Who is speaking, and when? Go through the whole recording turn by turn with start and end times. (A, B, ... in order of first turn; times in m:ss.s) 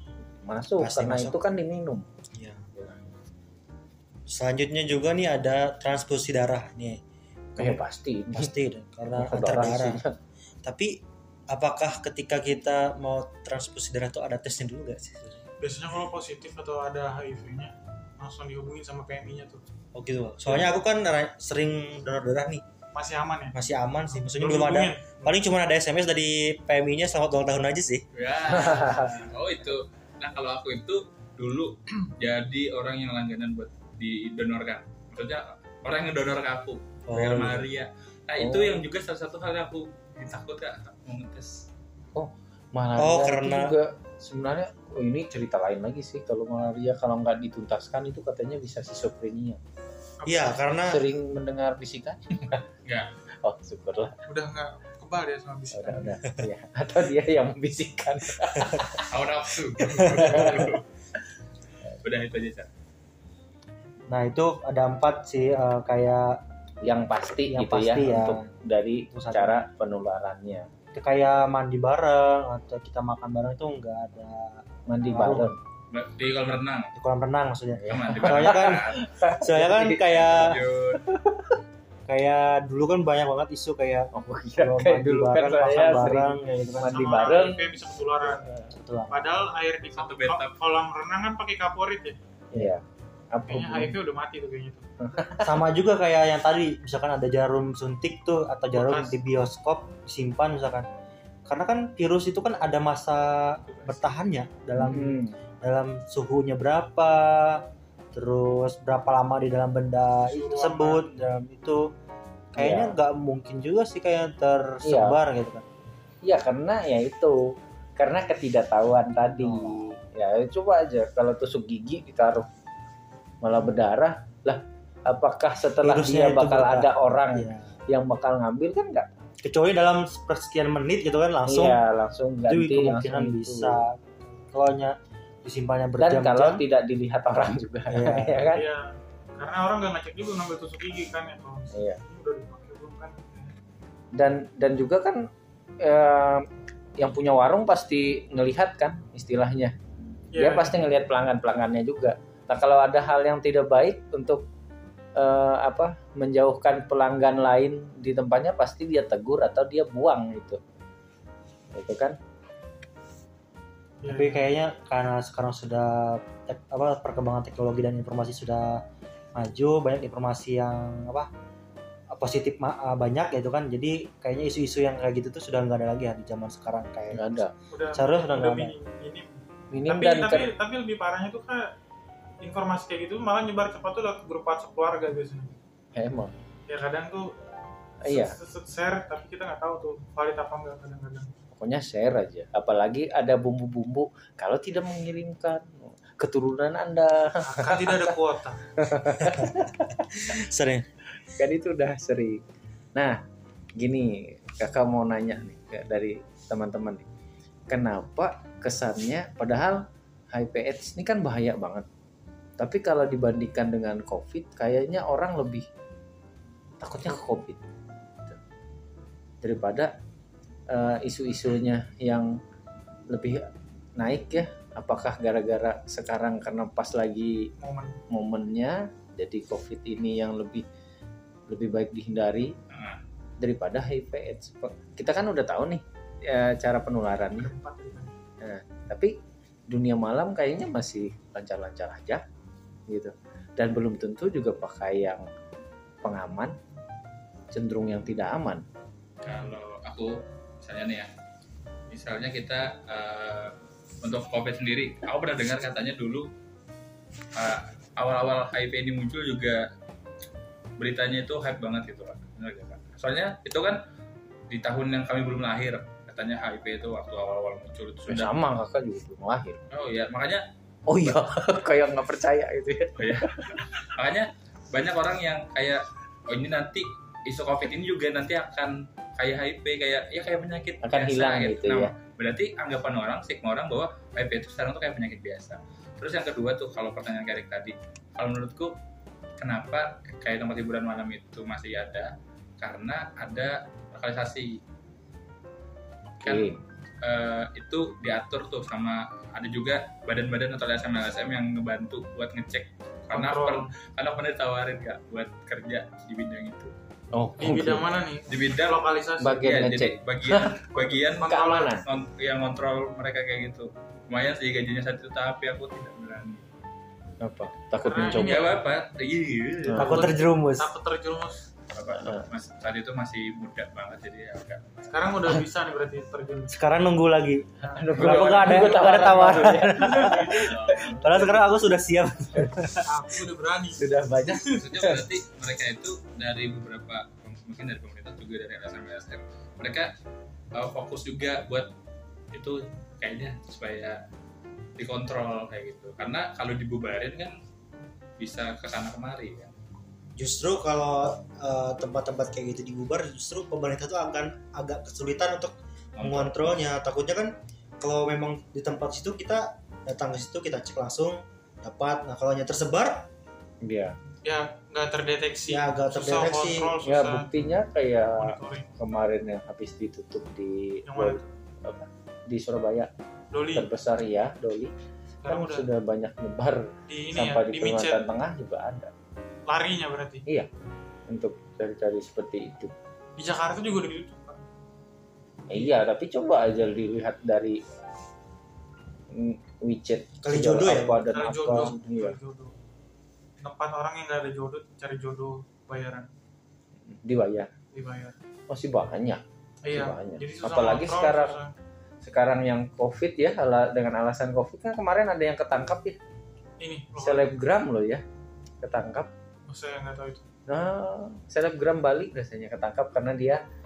0:00.4-0:02.1 A
0:00.8-0:01.4 B
0:02.3-0:02.7 B
0:04.3-0:07.0 B
0:07.6-0:10.0 B
0:07.6-0:08.5 A
0:09.1-0:10.2 A
0:10.6-0:15.4 B
0:15.6-0:19.6 C
0:19.9-0:22.6 B
0:22.9-0:23.6 C
0:23.5-0:28.0 B
0:24.2-0:25.2 C
0:28.1-0:41.7 D
0:28.6-0:29.0 A
0:37.1-0:37.7 B
0:38.4-0:38.8 A
0:42.1-0:49.6 A
0:43.0-0:43.8 B
0:50.2-0:50.8 C
0:50.2-0:51.0 B
0:50.8-0:52.6 A
0:52.8-0:53.1 D
0:53.4-0:54.2 A
0:54.3-0:56.1 C
0:55.7-0:59.1 A
0:58.9-1:00.8 D
1:00.0-1:00.5 B
1:00.0-1:00.7 A
1:02.0-1:02.7 D
1:04.1-1:06.4 B
1:06.8-1:10.7 A
1:07.5-1:08.5 B
1:09.1-1:09.7 B
1:10.9-1:15.5 B
1:14.9-1:15.6 A
1:15.9-1:16.9 D
1:17.0-1:20.6 B
1:17.8-1:20.2 A
1:17.9-1:19.1 D
1:20.1-1:21.0 D
1:21.0-1:21.6 A
1:22.1-1:27.5 B
1:24.1-1:27.7 A
1:26.8-1:28.5 C
1:28.3-1:29.4 B
1:28.4-1:28.7 A
1:29.1-1:32.2 C
1:29.9-1:30.5 D
1:32.5-1:33.9 A
1:33.5-1:34.8 C
1:35.0-1:35.6 A
1:35.4-1:40.9 B
1:38.7-1:39.1 C
1:41.5-1:51.9 B
1:43.7-1:44.0 D
1:44.8-1:45.4 A
1:50.2-1:51.2 C
1:52.6-1:55.6 B
1:52.6-1:53.0 A
1:54.8-1:55.2 A
1:56.2-2:02.5 A
1:59.4-1:59.8 B
2:03.4-2:09.1 A
2:05.8-2:07.7 B
2:09.4-2:11.8 B
2:11.5-2:13.8 A
2:12.5-2:16.6 B
2:16.0-2:18.6 A
2:17.9-2:18.6 B
2:18.5-2:23.6 C
2:21.7-2:22.0 A
2:24.1-2:25.3 A
2:25.8-2:29.8 A
2:30.3-2:30.8 C
2:30.4-2:34.4 A
2:35.2-2:40.6 A
2:41.7-2:42.2 A
2:44.0-2:44.5 C
2:44.0-2:48.8 B
2:49.4-2:51.3 B
2:52.1-2:58.7 B
2:57.1-2:57.5 A
2:57.7-3:01.8 C
2:59.7-3:00.5 A
3:02.4-3:05.6 C
3:06.0-3:06.3 A
3:06.7-3:07.3 C
3:08.0-3:08.4 A
3:08.1-3:11.3 C
3:11.5-3:18.2 A
3:17.4-3:18.6 C
3:18.8-3:19.8 A
3:19.2-3:20.9 B
3:21.3-3:22.4 A
3:23.0-3:23.2 A
3:23.8-3:27.1 A
3:27.7-3:31.9 A
3:32.6-3:35.7 A
3:36.8-3:37.6 A
3:39.4-3:40.0 A
3:40.7-3:42.4 A
3:43.1-3:47.5 A
3:47.6-3:48.0 C
3:48.1-3:50.6 A
3:51.5-3:52.6 A
3:52.7-3:53.0 D
3:53.4-3:57.5 A
3:57.4-3:58.2 C
3:58.4-3:59.2 A
3:59.7-4:02.2 A
4:02.9-4:05.2 A
4:06.0-4:06.6 A
4:07.5-4:08.6 A
4:09.2-4:11.1 D
4:11.9-4:16.3 D
4:17.4-4:19.7 D
4:20.8-4:23.8 D
4:24.5-4:28.4 D
4:28.1-4:29.6 A
4:29.7-4:30.5 D
4:30.9-4:33.6 A
4:33.0-4:48.8 D
4:40.8-4:41.9 A
4:49.4-4:54.6 D
4:56.2-4:56.6 A
4:56.2-5:06.7 D
5:03.1-5:03.7 C
5:07.1-5:07.9 A
5:07.4-5:09.4 C
5:08.3-5:16.4 D
5:09.2-5:10.6 A
5:10.7-5:11.8 C
5:11.2-5:11.9 A
5:17.2-5:18.5 A
5:17.8-5:18.6 C
5:18.1-5:20.1 D
5:19.7-5:20.1 A
5:19.8-5:20.7 B
5:19.8-5:21.5 C
5:21.7-5:25.4 D
5:22.0-5:22.3 A
5:24.9-5:26.6 C
5:26.5-5:33.0 B
5:27.6-5:30.5 C
5:27.7-5:31.3 A
5:28.0-5:28.8 D
5:30.3-5:31.0 D
5:32.8-5:34.6 C
5:33.8-5:35.0 A
5:34.5-5:39.9 D
5:40.5-5:41.7 D
5:42.3-5:44.0 D
5:44.8-5:47.4 D
5:48.2-5:49.5 D
5:50.2-6:03.1 B
5:56.0-5:56.5 D
6:03.6-6:04.0 A
6:04.2-6:07.3 C
6:05.5-6:06.8 B
6:06.8-6:12.9 A
6:08.1-6:08.7 C
6:10.9-6:11.3 C
6:13.3-6:13.7 C
6:13.5-6:14.7 A
6:15.2-6:15.7 C
6:15.3-6:18.9 A
6:16.9-6:18.0 C
6:19.5-6:20.2 C
6:21.1-6:22.7 A
6:23.2-6:24.4 C
6:25.5-6:27.6 A
6:29.1-6:32.2 A
6:30.2-6:31.8 B
6:31.1-6:32.6 C
6:33.4-6:36.1 C
6:36.9-6:37.5 A
6:37.7-6:38.2 C
6:38.5-6:41.4 A
6:39.6-6:41.5 C
6:42.0-6:46.0 A
6:46.6-6:47.3 C
6:47.0-6:48.0 A
6:48.6-6:49.1 A
6:49.5-6:50.2 C
6:50.5-6:53.4 A